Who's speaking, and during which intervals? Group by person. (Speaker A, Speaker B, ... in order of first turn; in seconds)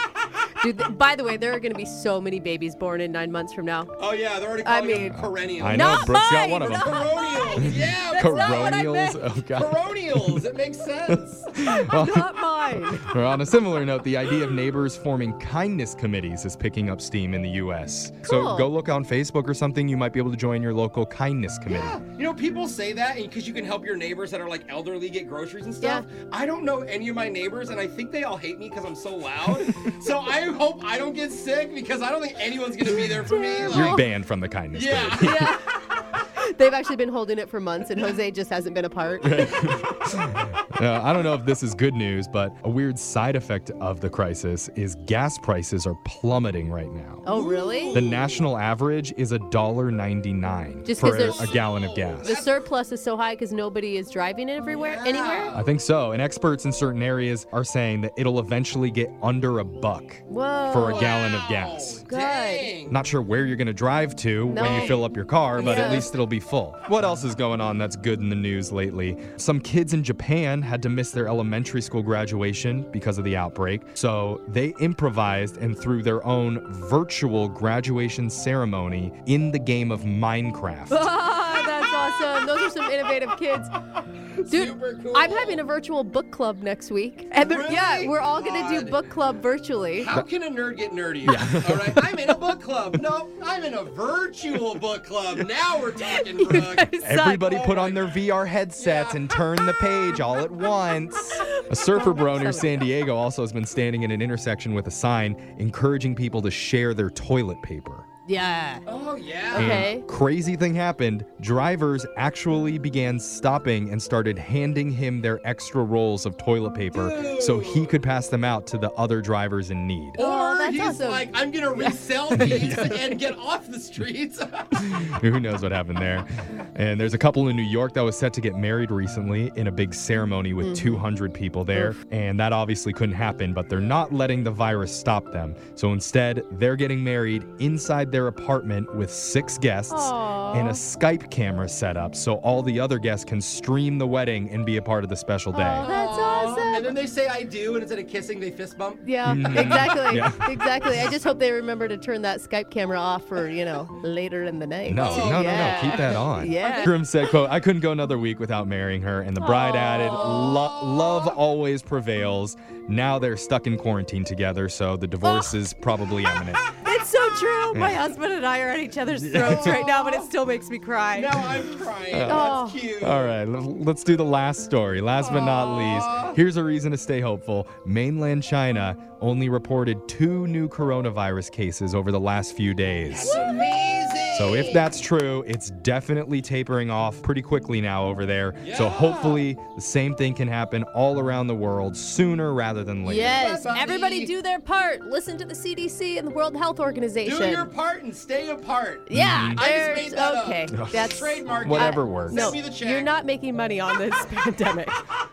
Speaker A: 0.6-3.9, 4.6-9.2, 11.7-13.1, 18.2-18.7, 25.8-26.1, 33.2-34.1, 35.2-35.6, 36.4-39.8, 47.2-48.0, 50.9-51.6, 52.2-55.6, 60.3-61.2, 62.1-62.7, 64.5-65.0, 65.6-66.1, 80.9-83.8, 84.4-90.1, 96.1-97.6, 101.8-102.9, 108.3-108.9, 109.5-110.1, 120.2-122.7, 130.6-131.1, 139.9-140.8, 145.5-146.9, 149.0-156.9, 159.4-160.4, 165.2-165.5, 166.8-171.4, 172.3-172.8, 183.2-183.7, 193.0-197.7, 199.1-205.0
Speaker B: 4.0-8.9, 9.4-11.5, 21.7-34.0, 34.7-35.5, 47.3-48.5, 51.0-52.6, 54.7-55.7, 60.8-63.0, 64.6-65.0, 65.5-66.1, 84.4-85.6, 87.4-89.1, 90.0-98.2, 98.8-99.2, 108.9-109.9, 116.9-118.0, 120.2-124.7, 145.7-149.9, 155.0-156.2, 160.0-161.4, 169.4-170.3, 171.1-173.4, 175.2-176.4, 183.1-184.9, 188.6-189.5, 193.4-194.3, 197.2-203.1
Speaker C: 5.1-7.0, 7.6-10.4, 11.1-22.0, 33.6-35.5, 39.2-47.2, 47.9-52.3, 55.5-62.0, 62.9-81.2, 91.2-92.3, 97.0-108.1, 109.5-120.2, 122.4-122.7, 124.8-145.8, 149.2-150.5, 154.9-166.7, 167.7-168.1, 169.2-169.8, 172.1-183.4, 184.3-193.5, 199.1-199.7, 200.7-202.6